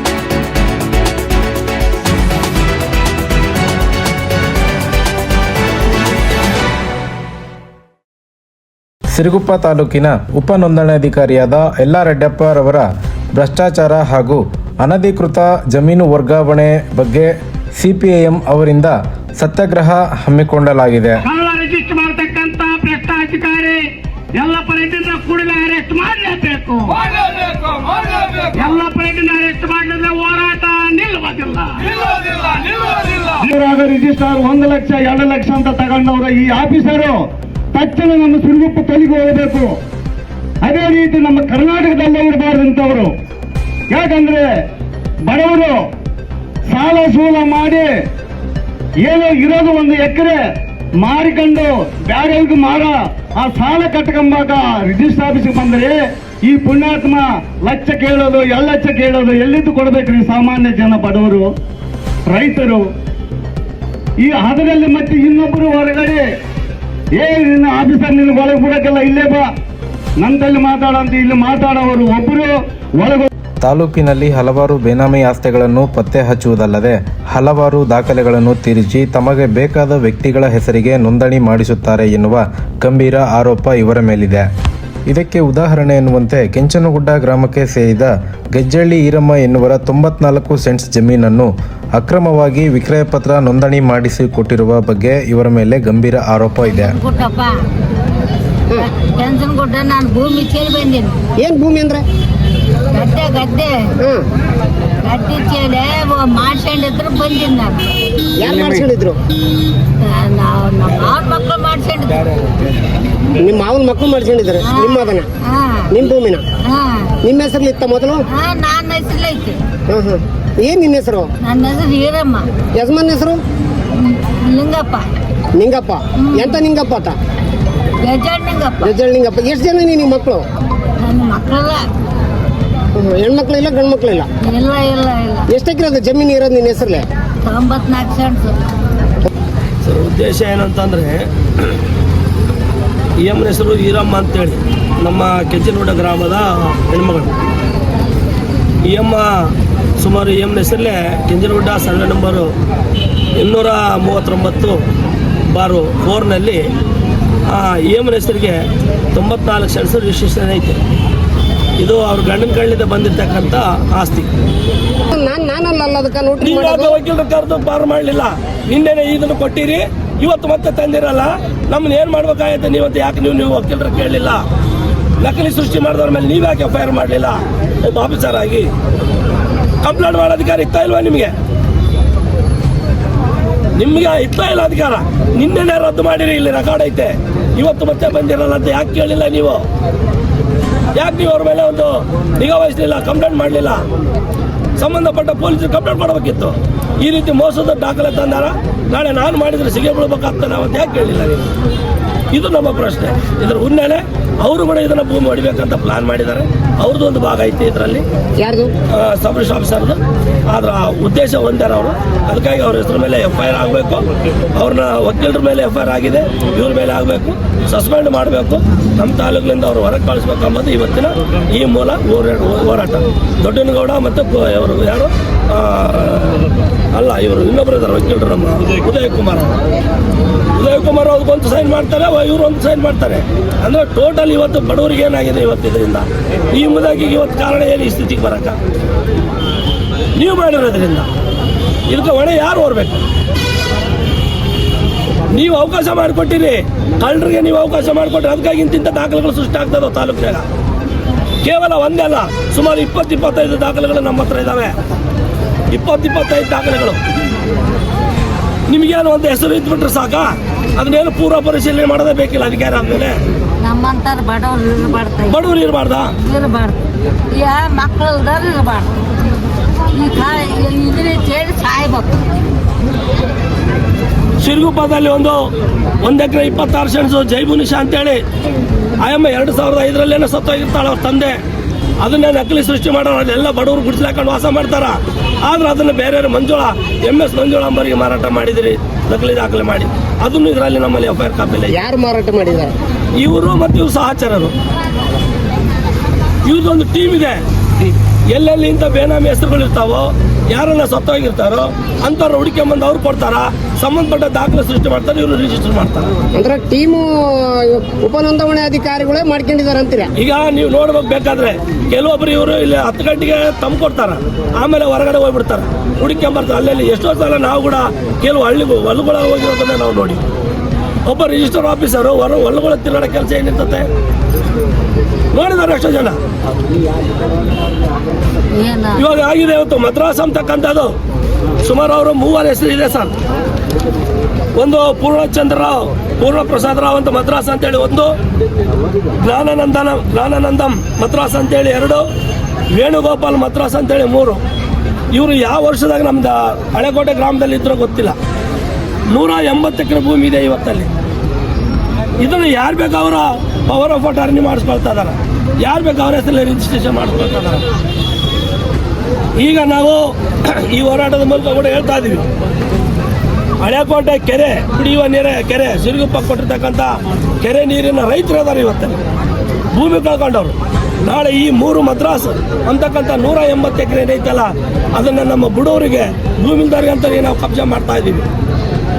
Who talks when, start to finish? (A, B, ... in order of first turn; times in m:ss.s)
0:09.1-0:21.2 A
0:21.2-0:33.5 B
0:33.4-0:37.2 C
0:37.7-0:39.7 C
0:40.6-0:43.1 C
0:43.9-0:44.4 C
0:45.3-0:45.8 C
0:46.7-0:47.9 C
0:49.0-0:50.4 C
0:51.0-1:01.5 C
1:02.3-1:02.8 C
1:04.2-1:06.2 C
1:07.2-1:09.5 C
1:10.2-1:13.3 C
1:13.6-1:24.4 A
1:25.1-1:37.0 A
1:36.6-1:37.6 D
1:38.8-1:41.2 D
1:41.4-1:42.0 E
1:42.9-1:43.9 D
1:44.0-1:44.2 E
1:45.0-1:47.9 D
1:48.4-1:49.2 E
1:50.0-1:52.2 D
1:53.4-1:55.3 E
1:54.6-1:55.9 D
1:55.9-1:56.4 E
1:56.6-1:57.1 D
1:57.2-1:58.2 E
1:58.3-1:59.6 D
1:59.9-2:01.3 E
2:01.4-2:02.5 D
2:02.8-2:03.4 E
2:03.9-2:05.1 D
2:05.5-2:07.2 E
2:06.2-2:06.6 D
2:08.0-2:08.9 D
2:08.8-2:10.5 E
2:11.0-2:11.8 D
2:13.0-2:14.3 E
2:14.5-2:15.5 D
2:15.5-2:17.0 E
2:17.4-2:18.6 D
2:19.8-2:21.8 F
2:23.2-2:27.3 F
2:28.8-2:32.5 F
2:33.4-2:34.8 F
2:35.5-2:36.6 F
2:37.5-2:38.6 F
2:39.1-2:40.8 F
2:41.8-2:44.3 F
2:45.1-2:47.0 E
2:46.4-2:54.4 F
2:55.2-2:58.7 F
2:59.8-3:01.3 F
3:03.7-3:09.7 F
3:10.9-3:13.8 F
3:14.8-3:21.5 F
3:22.3-3:28.0 F
3:28.4-3:28.7 E
3:28.9-3:49.6 F
3:50.6-3:58.6 F
4:00.2-4:01.1 F
4:01.9-4:03.0 F
4:05.3-4:10.4 F
4:11.4-4:14.8 F
4:15.7-4:17.0 F
4:18.7-4:23.2 F
4:23.6-4:25.4 D
4:25.3-4:26.1 F
4:26.2-4:29.0 D
4:29.9-4:32.2 D
4:34.4-4:35.5 F
4:36.0-4:38.2 F
4:39.0-4:41.4 F
4:42.0-4:51.8 F
4:51.7-4:52.7 E
4:53.2-4:54.5 F
4:56.4-4:57.4 F
4:58.3-5:06.1 F
5:06.3-5:10.1 E
5:10.2-5:20.2 F
5:21.0-5:23.9 F
5:25.3-5:26.2 F
5:28.5-5:29.0 D
5:29.0-5:31.0 F
5:31.6-5:33.1 F
5:34.6-5:38.1 F
5:39.2-5:42.1 F
5:42.7-5:44.4 F
5:45.1-5:48.2 F
5:49.1-5:50.9 F
5:52.2-5:57.6 F
5:59.4-6:02.3 F
6:03.6-6:09.0 F
6:09.7-6:18.3 F